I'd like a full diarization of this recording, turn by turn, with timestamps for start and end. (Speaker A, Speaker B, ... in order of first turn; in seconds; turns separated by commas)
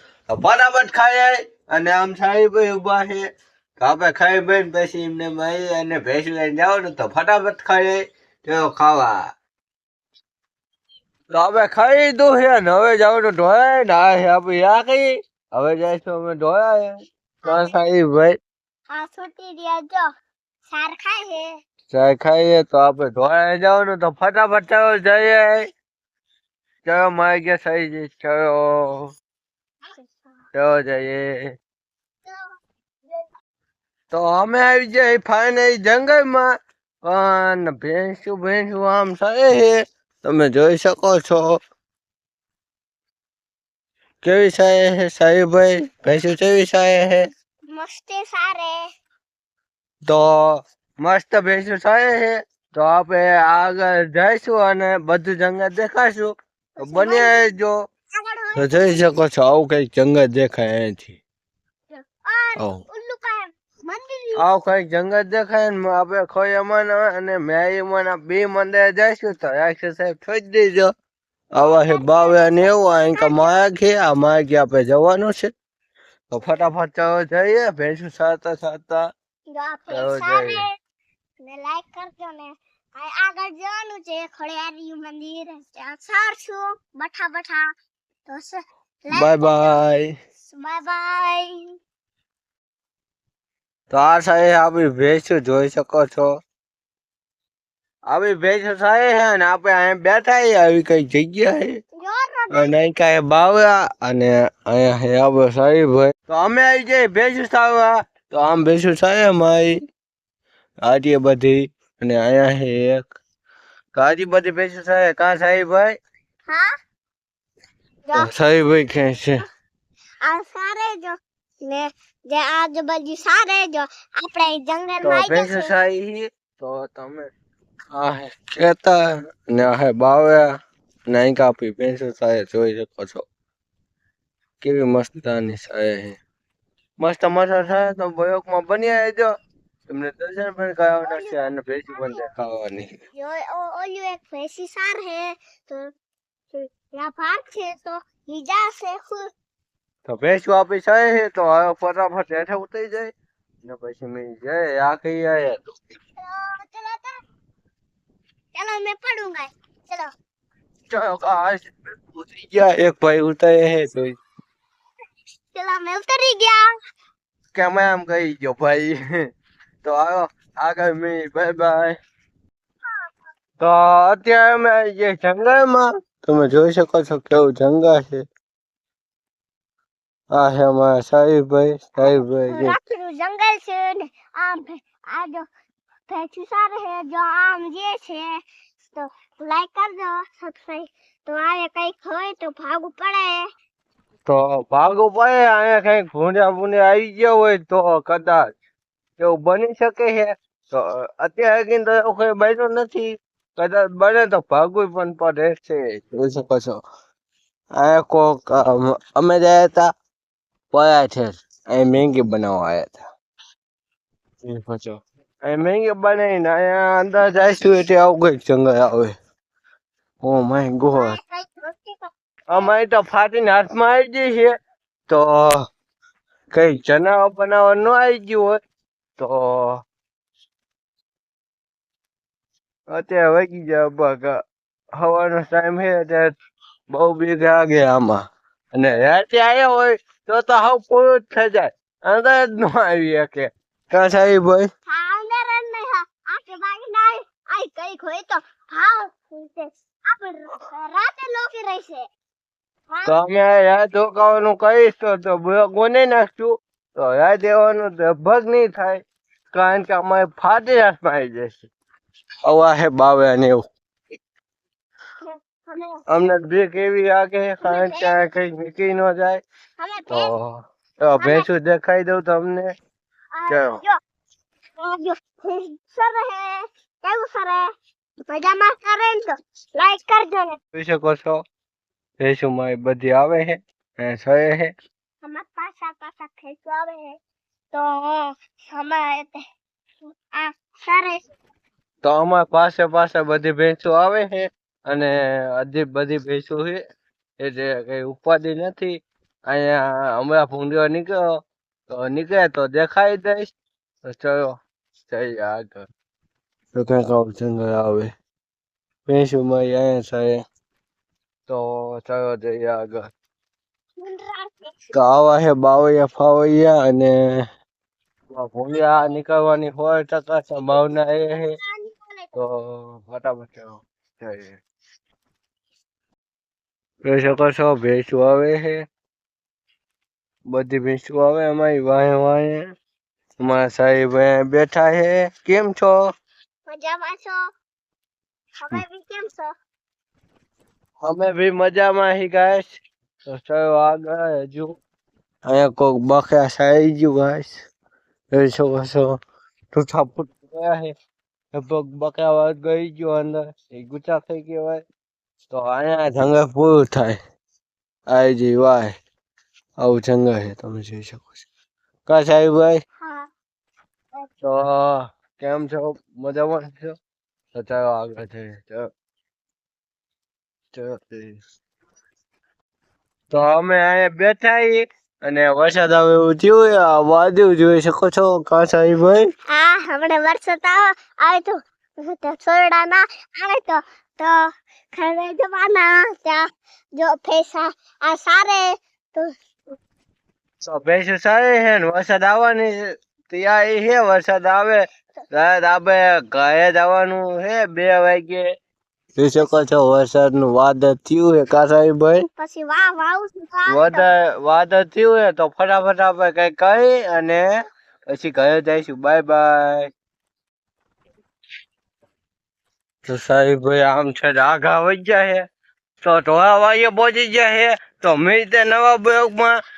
Speaker A: 0.3-3.2, Speaker A: 3.8-9.2, Speaker A: 11.3-18.4, Speaker B: 17.4-17.7, Speaker B: 18.9-20.0, Speaker B: 20.7-21.6, Speaker A: 21.9-25.7, Speaker A: 26.9-29.1, Speaker A: 30.5-31.5, Speaker A: 34.1-36.5, Speaker A: 37.0-41.6, Speaker A: 44.2-47.2, Speaker B: 47.7-48.8, Speaker A: 50.1-57.8, Speaker B: 56.8-57.5, Speaker B: 58.1-59.0, Speaker A: 58.6-61.2, Speaker B: 62.0-64.4, Speaker A: 64.4-70.9, Speaker A: 71.5-75.5, Speaker B: 71.6-73.6, Speaker A: 76.3-79.1, Speaker B: 79.5-80.7, Speaker A: 79.9-80.7, Speaker B: 81.4-87.7, Speaker B: 88.3-89.8, Speaker A: 89.1-90.1, Speaker B: 90.5-91.5, Speaker A: 93.9-96.3, Speaker A: 98.1-101.8, Speaker B: 102.0-102.7, Speaker A: 102.5-109.8, Speaker A: 110.8-113.1, Speaker A: 114.0-116.0, Speaker A: 118.2-119.4, Speaker B: 120.2-125.7, Speaker A: 125.0-127.3, Speaker A: 127.9-130.5, Speaker A: 131.1-133.2, Speaker A: 134.6-136.2, Speaker A: 137.0-139.3, Speaker A: 139.9-142.9, Speaker B: 141.0-142.3, Speaker B: 143.2-145.9, Speaker B: 146.5-149.2, Speaker A: 150.1-153.1, Speaker A: 153.6-155.8, Speaker B: 156.2-157.2, Speaker B: 158.5-160.1, Speaker A: 160.9-164.2, Speaker B: 165.5-166.7, Speaker A: 167.5-169.0, Speaker A: 169.8-172.0, Speaker A: 173.6-178.2, Speaker A: 180.3-182.8, Speaker B: 182.0-185.5, Speaker B: 186.1-188.3, Speaker B: 188.9-193.4, Speaker A: 194.3-198.5, Speaker A: 199.2-206.8, Speaker A: 207.8-209.9, Speaker A: 210.7-213.1, Speaker A: 214.4-219.2, Speaker A: 220.2-221.2, Speaker B: 220.9-222.7, Speaker A: 222.5-224.6, Speaker A: 225.1-225.7, Speaker A: 226.5-228.6, Speaker A: 229.2-229.8, Speaker A: 232.9-234.4, Speaker A: 235.0-236.3, Speaker A: 236.9-244.7, Speaker B: 244.9-252.1, Speaker A: 253.1-259.0, Speaker A: 259.5-261.7, Speaker A: 262.5-263.6, Speaker B: 265.3-266.0, Speaker A: 266.1-269.4, Speaker B: 267.6-268.2, Speaker B: 269.8-270.3, Speaker A: 270.1-272.7, Speaker B: 271.2-271.5, Speaker B: 273.4-274.0, Speaker A: 273.5-273.8, Speaker B: 274.8-277.7, Speaker B: 278.3-280.6, Speaker A: 280.8-281.4, Speaker A: 282.2-284.7, Speaker B: 285.2-287.2, Speaker B: 287.7-289.4, Speaker B: 290.4-291.2, Speaker A: 292.0-296.8, Speaker A: 297.4-299.0, Speaker A: 299.5-301.3, Speaker A: 301.9-303.5, Speaker A: 304.0-304.6, Speaker A: 305.1-305.9, Speaker A: 306.7-308.1, Speaker A: 309.1-310.4, Speaker A: 311.5-313.1, Speaker B: 314.0-314.8, Speaker A: 314.9-317.2, Speaker A: 318.3-321.6, Speaker B: 321.6-322.3, Speaker A: 322.4-324.6, Speaker A: 327.1-328.8, Speaker A: 330.5-332.6, Speaker A: 333.4-336.0, Speaker B: 336.7-337.4, Speaker B: 338.6-339.5, Speaker A: 341.0-342.7, Speaker A: 343.3-344.8, Speaker A: 345.4-347.6, Speaker A: 348.3-349.1, Speaker A: 349.7-350.9, Speaker A: 351.5-354.8, Speaker A: 355.5-357.2, Speaker A: 358.1-358.9, Speaker A: 359.8-361.5, Speaker A: 362.1-362.8, Speaker B: 363.0-363.3, Speaker A: 364.4-367.0, Speaker A: 367.5-368.9, Speaker A: 370.7-371.4, Speaker A: 373.3-379.3, Speaker B: 379.5-384.4, Speaker B: 384.9-386.4, Speaker B: 387.0-389.3, Speaker A: 390.6-398.5, Speaker A: 399.2-402.3, Speaker B: 402.4-404.1, Speaker A: 403.7-407.5, Speaker A: 408.1-409.9, Speaker A: 413.1-415.4, Speaker A: 416.0-419.6